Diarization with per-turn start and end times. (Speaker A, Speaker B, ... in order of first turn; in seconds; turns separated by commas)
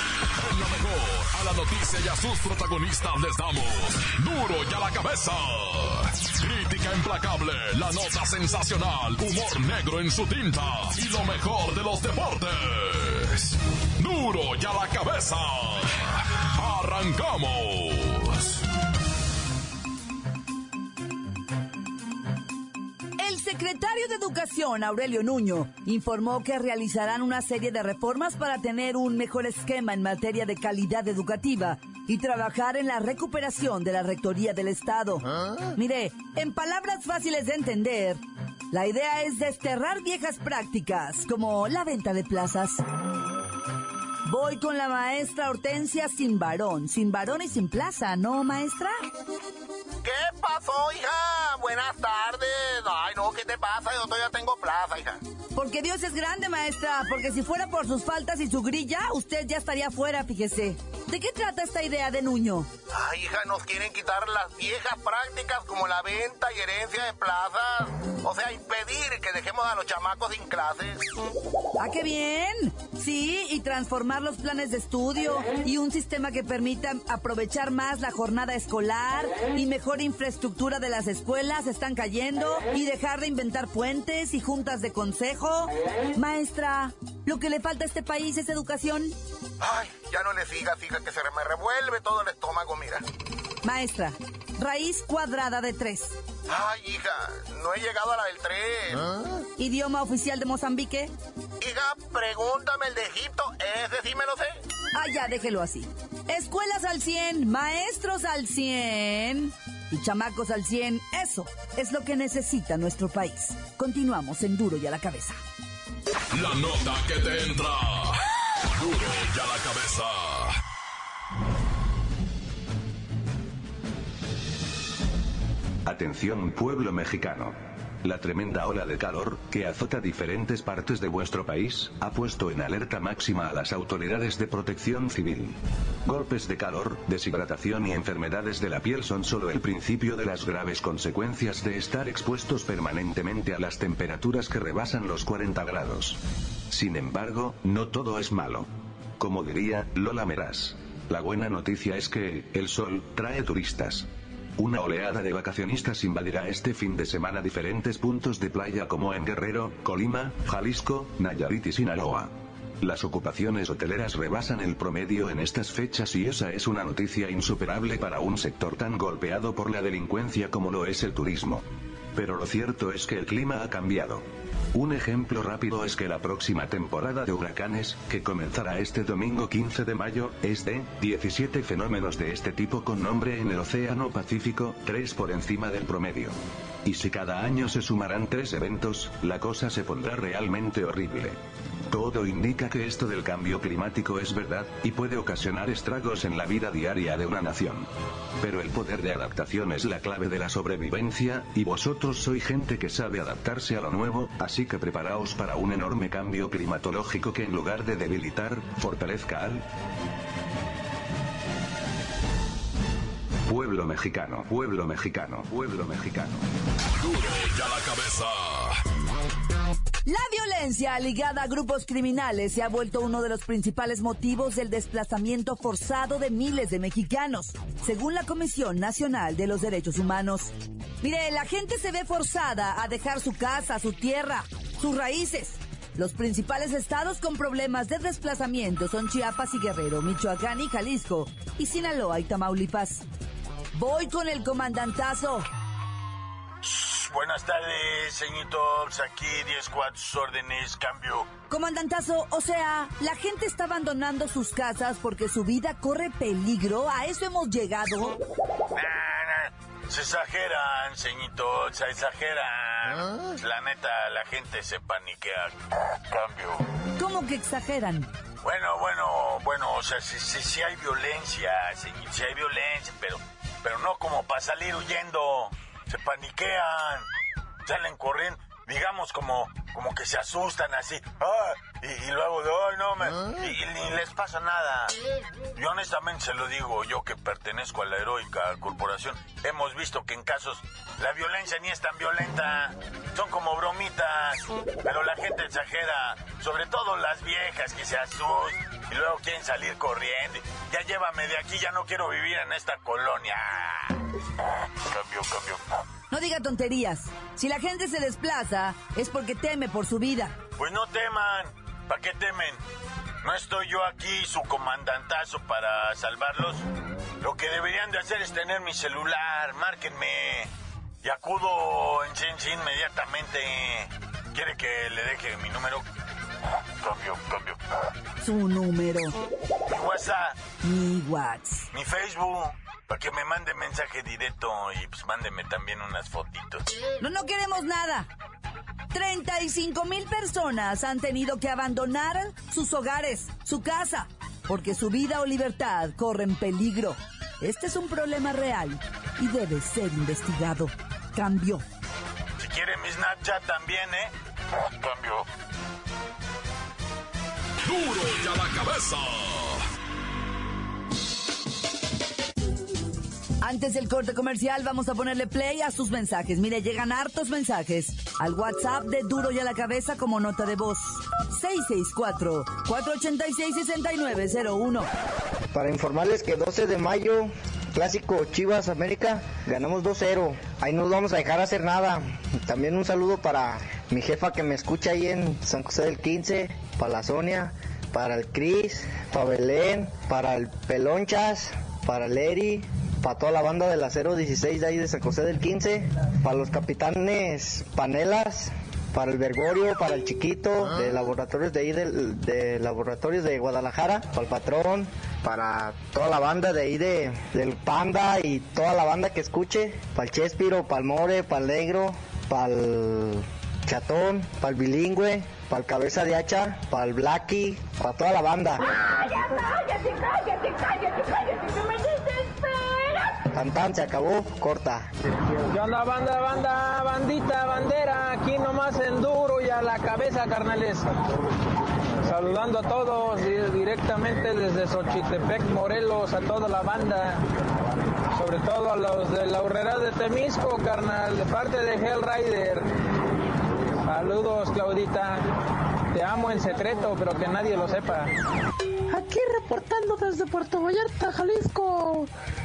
Speaker A: 0.4-18.6, Speaker B: 23.2-42.8, Speaker B: 44.2-49.0, Speaker C: 50.0-55.2, Speaker B: 55.5-62.7, Speaker C: 62.9-71.0, Speaker B: 71.8-89.1, Speaker C: 89.6-93.0, Speaker B: 93.6-96.2, Speaker C: 96.5-99.1, Speaker B: 99.6-101.1, Speaker C: 101.6-104.5, Speaker B: 104.9-115.4, Speaker A: 116.3-118.2, Speaker A: 118.7-120.6, Speaker D: 125.8-146.2, Speaker D: 146.7-148.7, Speaker D: 149.2-171.6, Speaker D: 172.1-191.4, Speaker D: 191.9-197.9, Speaker D: 198.4-209.6, Speaker D: 213.5-216.4, Speaker A: 217.0-218.8, Speaker B: 220.1-243.0, Speaker B: 243.7-245.5, Speaker E: 246.6-251.3, Speaker B: 251.5-258.2, Speaker E: 258.7-265.6, Speaker E: 266.1-266.6, Speaker B: 267.0-268.1, Speaker E: 268.4-277.1, Speaker E: 277.6-284.9, Speaker E: 285.6-304.0, Speaker E: 304.9-305.6, Speaker B: 306.1-310.4, Speaker E: 310.6-312.6, Speaker E: 313.2-316.6, Speaker E: 317.2-320.5, Speaker E: 321.0-325.8, Speaker E: 326.8-327.6, Speaker B: 328.2-329.2, Speaker E: 329.7-330.4, Speaker B: 330.6-331.7, Speaker E: 331.7-336.6, Speaker B: 337.0-338.1, Speaker B: 338.9-351.6, Speaker E: 352.4-354.1, Speaker E: 354.8-355.2, Speaker A: 357.6-359.6, Speaker B: 363.4-374.9, Speaker F: 375.5-418.7, Speaker F: 423.3-424.9, Speaker G: 425.5-430.8, Speaker G: 432.0-437.2, Speaker G: 438.1-442.6, Speaker G: 443.9-445.2, Speaker G: 445.9-448.1, Speaker H: 448.9-452.1